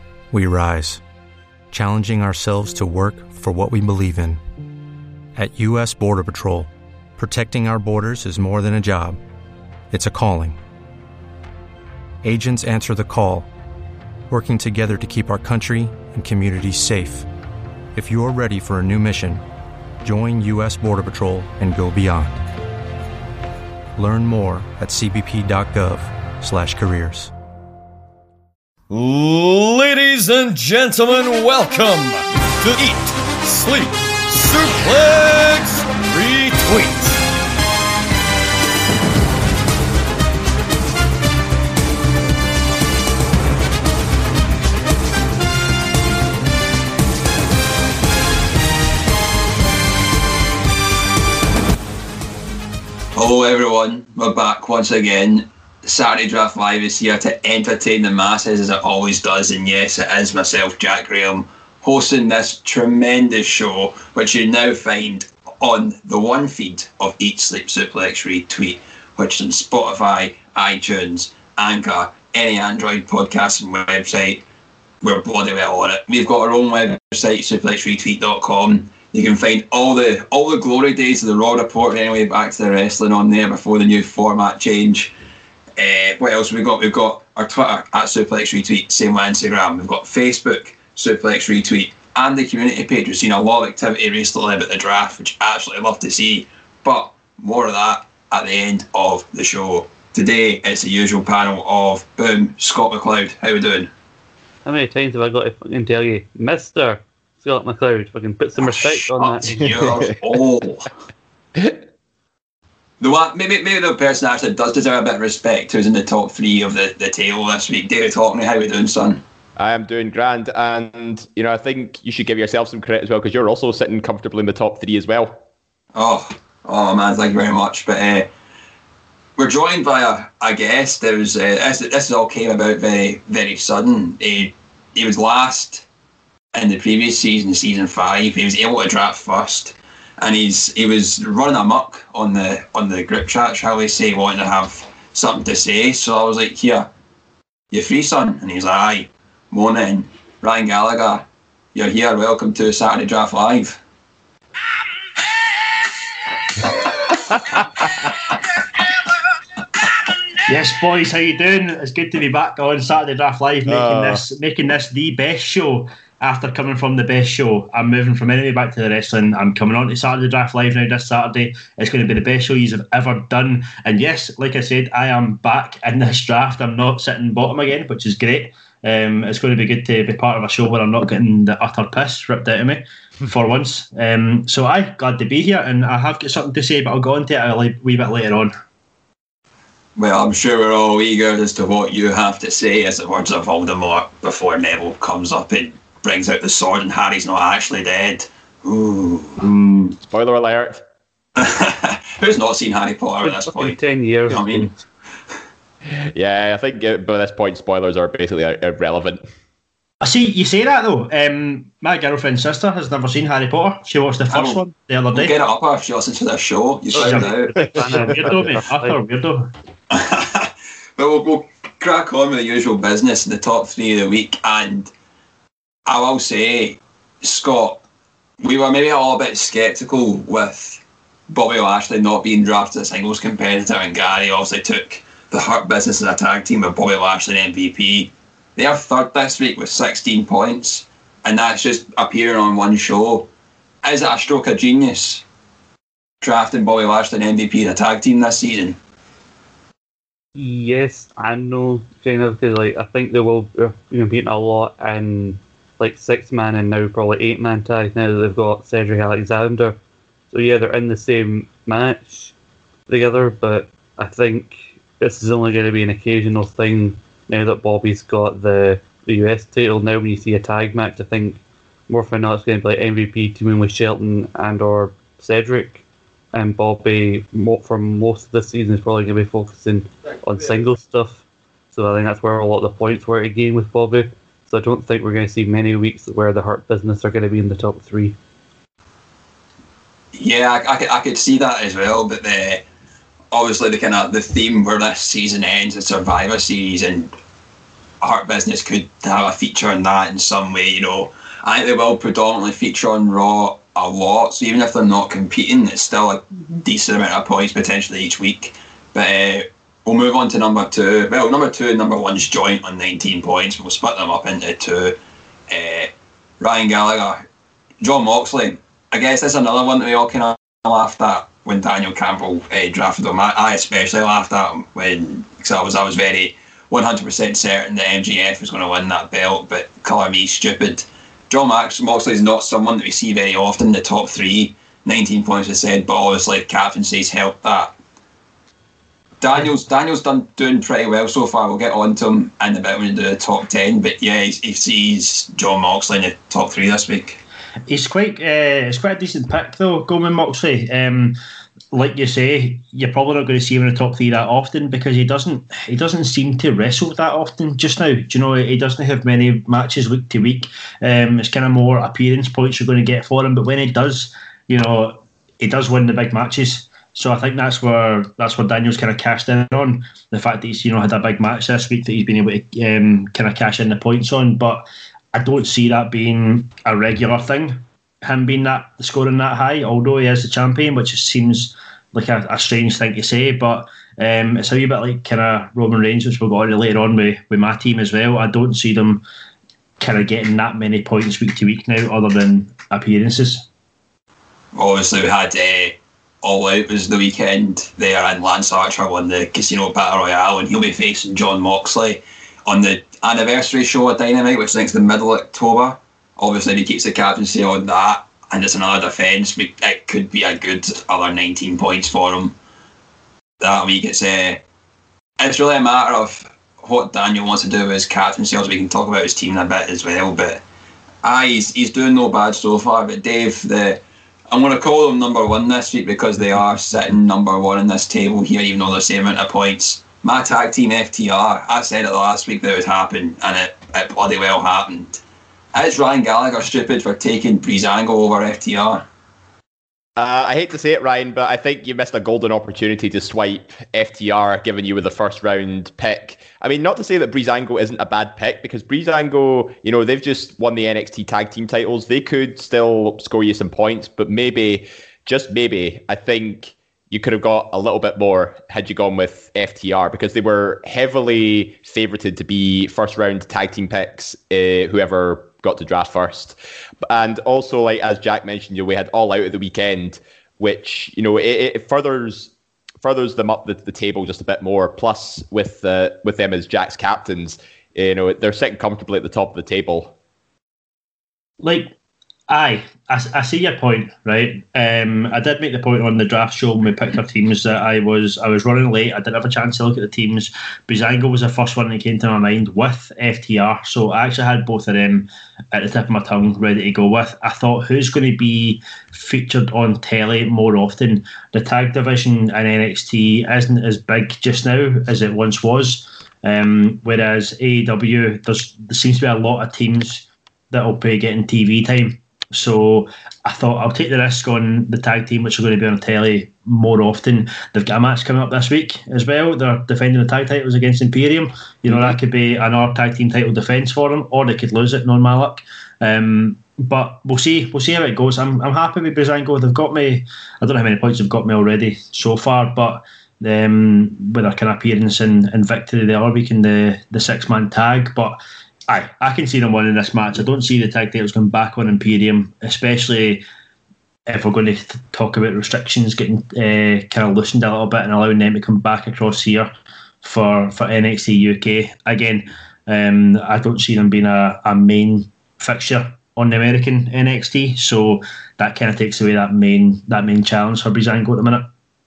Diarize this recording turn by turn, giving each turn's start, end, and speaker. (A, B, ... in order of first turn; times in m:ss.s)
0:00.3-0:01.0 A
0:01.7-0:04.4 A
0:05.4-0:09.2 A
0:09.9-0:10.6 A
0:12.2-0:13.5 A
0:14.3-0:17.3 A
0:17.9-0:19.4 A
0:20.0-0:22.4 A
0:24.0-0:27.3 A
0:28.9-0:37.2 B
0:53.2-1:14.4 C
1:15.0-1:25.1 C
1:25.8-1:43.9 C
1:44.6-1:49.7 D
1:48.6-1:50.9 C
1:49.8-1:50.1 E
1:53.0-1:59.2 C
1:59.6-2:05.4 E
2:05.9-2:08.3 C
2:09.4-2:15.8 C
2:16.5-2:26.9 C
2:27.7-2:31.2 C
2:31.7-2:33.8 C
2:40.5-3:08.5 F
2:43.7-2:44.2 E
3:10.0-3:19.5 C
3:20.0-3:20.8 E
3:21.4-3:23.8 C
3:23.2-3:24.7 D
3:24.3-3:24.7 C
3:25.9-3:29.2 E
3:30.0-3:35.3 F
3:34.3-3:34.6 C
3:35.1-3:37.6 C
3:36.9-3:39.0 D
3:36.9-3:39.5 F
3:37.6-3:38.3 E
3:39.9-3:44.9 C
3:45.9-3:47.8 C
3:48.4-4:03.3 C
4:03.8-4:05.2 C
4:06.2-4:08.8 C
4:10.4-4:19.8 D
4:20.3-4:22.3 D
4:22.9-4:48.2 D
4:50.1-4:52.6 C
4:53.3-4:57.1 C
4:58.0-5:15.0 C
5:15.5-5:17.2 C
5:17.8-5:37.7 C
5:39.2-5:47.2 C
5:47.7-5:51.1 F
5:51.7-6:29.0 F
6:29.8-6:33.5 F
6:34.5-6:52.3 C
6:53.4-6:54.4 C
6:55.2-7:00.4 C
7:01.0-7:15.0 C
7:15.5-7:18.8 C
7:20.0-7:59.9 E
8:01.4-8:01.7 F
8:02.3-9:03.2 F
9:04.1-9:09.5 F
9:10.0-9:21.5 F